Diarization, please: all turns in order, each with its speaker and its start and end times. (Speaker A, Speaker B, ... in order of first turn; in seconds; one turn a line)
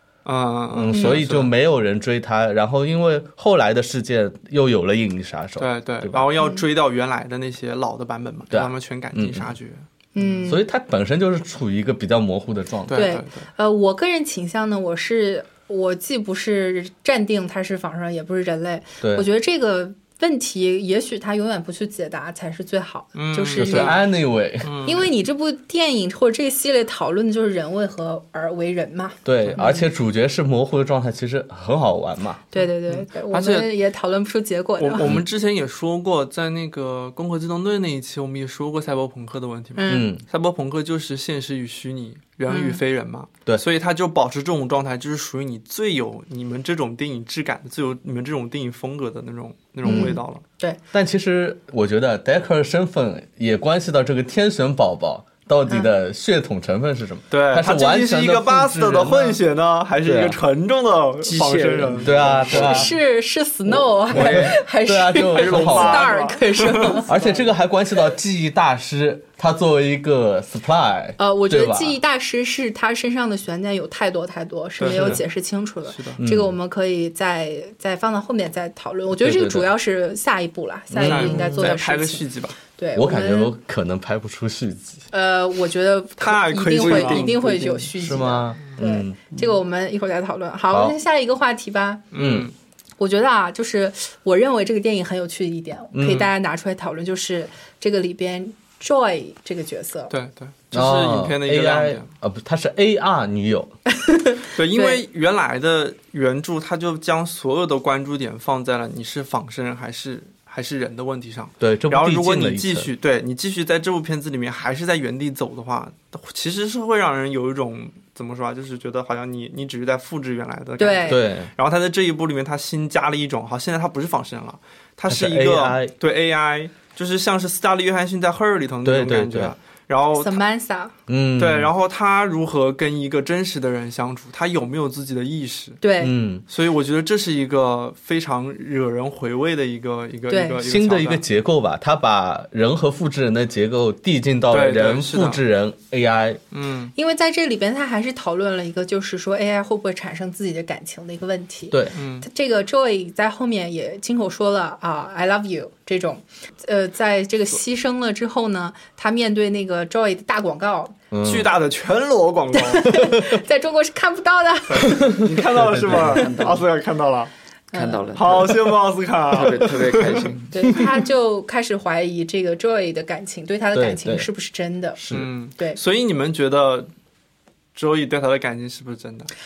Speaker A: 0.2-1.5
Speaker B: 0.7-6.2
Speaker C: 0.9-1.2
Speaker A: 5.6-10.4
Speaker C: 6.4-6.6
Speaker B: 8.5-9.5
Speaker C: 10.1-10.6
Speaker B: 10.4-13.1
Speaker A: 12.9-13.4
Speaker C: 12.9-24.0
Speaker B: 19.0-19.3
Speaker A: 23.1-24.0
Speaker B: 23.5-24.7
Speaker A: 24.6-25.1
Speaker C: 24.8-29.9
Speaker B: 29.2-32.5
Speaker C: 32.5-35.1
Speaker A: 32.6-33.7
Speaker A: 34.8-50.4
Speaker C: 39.8-40.1
Speaker B: 39.9-40.2
Speaker C: 42.5-42.8
Speaker C: 49.8-50.8
Speaker B: 49.9-50.1
Speaker B: 50.9-59.4
Speaker A: 57.3-62.9
Speaker B: 60.0-60.4
Speaker D: 61.2-62.9
Speaker B: 62.0-62.9
Speaker C: 62.6-67.1
Speaker B: 63.7-66.1
Speaker A: 64.1-64.5
Speaker A: 65.3-67.5
Speaker B: 67.0-72.0
Speaker C: 71.2-83.5
Speaker A: 74.8-75.2
Speaker B: 74.9-75.2
Speaker A: 75.9-76.2
Speaker B: 76.2-76.5
Speaker B: 79.2-79.7
Speaker B: 80.9-81.6
Speaker A: 81.0-82.5
Speaker B: 83.0-85.1
Speaker C: 85.1-92.0
Speaker A: 86.2-87.3
Speaker D: 86.8-87.9
Speaker B: 88.0-89.2
Speaker B: 90.7-91.0
Speaker A: 92.1-92.5
Speaker B: 92.1-92.5
Speaker C: 93.0-100.1
Speaker B: 95.9-96.3
Speaker A: 100.1-102.1
Speaker B: 100.7-103.7
Speaker C: 104.0-105.0
Speaker A: 104.5-130.4
Speaker B: 111.6-112.9
Speaker C: 120.8-121.2
Speaker B: 121.1-121.5
Speaker B: 125.1-125.9
Speaker B: 128.8-129.5
Speaker C: 130.1-130.9
Speaker B: 131.1-131.7
Speaker A: 131.4-135.8
Speaker C: 135.8-136.1
Speaker B: 136.0-136.4
Speaker A: 136.5-141.2
Speaker C: 140.3-140.6
Speaker B: 140.6-146.4
Speaker A: 144.5-145.4
Speaker A: 146.5-146.9
Speaker C: 146.9-160.9
Speaker A: 151.9-152.3
Speaker B: 161.1-161.5
Speaker A: 161.2-162.9
Speaker C: 162.5-165.2
Speaker B: 162.9-163.3
Speaker A: 164.7-167.3
Speaker B: 165.0-166.3
Speaker D: 165.6-166.6
Speaker C: 167.7-168.0
Speaker D: 167.7-168.5
Speaker A: 168.1-170.3
Speaker D: 169.3-170.5
Speaker C: 170.5-175.0
Speaker B: 173.7-174.3
Speaker B: 174.9-175.3
Speaker A: 175.1-176.9
Speaker A: 177.7-179.3